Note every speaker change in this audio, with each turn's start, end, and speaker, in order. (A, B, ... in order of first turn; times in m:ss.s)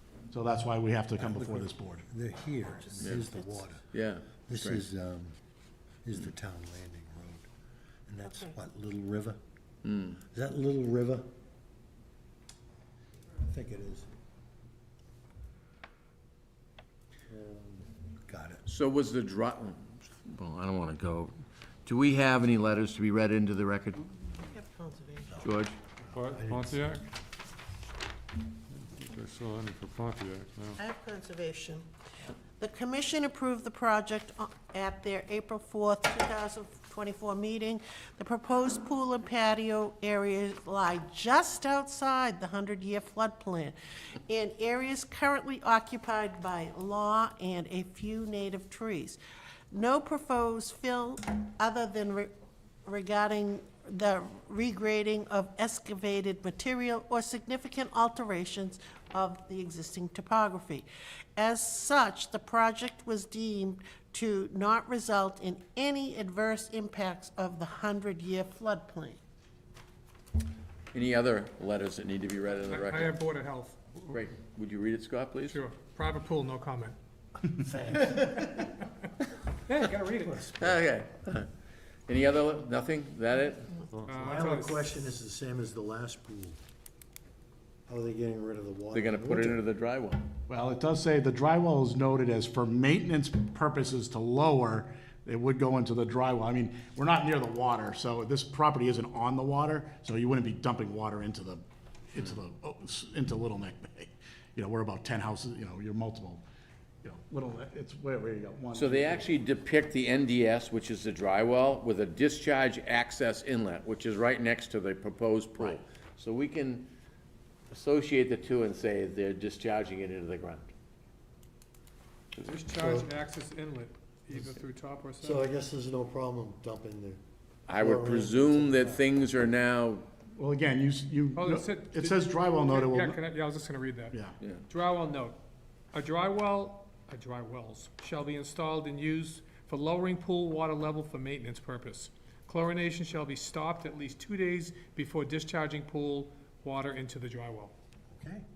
0:00.3-0:02.0 A
0:01.2-0:03.8 B
0:02.7-0:03.7 C
0:03.0-0:03.3 D
0:03.9-0:04.8 D
0:04.4-0:05.4 B
0:06.0-0:07.5 B
0:08.1-0:09.4 B
0:08.2-0:08.6 C
0:09.8-0:10.2 D
0:10.2-0:11.3 B
0:13.4-0:14.1 B
0:17.3-0:18.6 B
0:18.7-0:24.1 D
0:24.2-0:25.4 C
0:25.4-0:25.8 D
0:26.0-0:26.9 B
0:26.1-0:27.0 E
0:28.7-0:30.8 E
0:30.8-0:31.9 C
0:32.6-0:49.2 C
0:49.7-0:52.3 C
0:52.8-1:09.2 C
1:10.9-1:13.2 D
1:12.7-1:13.9 F
1:14.1-1:15.6 D
1:15.5-1:16.9 F
1:17.5-1:18.6 B
1:18.1-1:18.6 F
1:19.7-1:20.4 F
1:20.0-1:20.8 B
1:20.6-1:21.5 D
1:22.1-1:23.9 D
1:24.0-1:24.8 F
1:24.1-1:26.6 B
1:27.9-1:29.6 B
1:28.9-1:30.3 D
1:30.5-1:46.4 A
1:47.0-1:49.3 A
1:48.7-1:56.9 D
1:57.7-2:00.7 D
2:02.4-2:05.5 F
2:02.7-2:03.1 B
2:05.2-2:07.2 B
2:07.7-2:10.1 D
2:07.8-2:09.0 B
2:10.4-2:13.2 A
2:11.4-2:14.1 F
2:14.7-2:15.4 F
2:15.9-2:27.7 F
2:28.1-2:28.4 B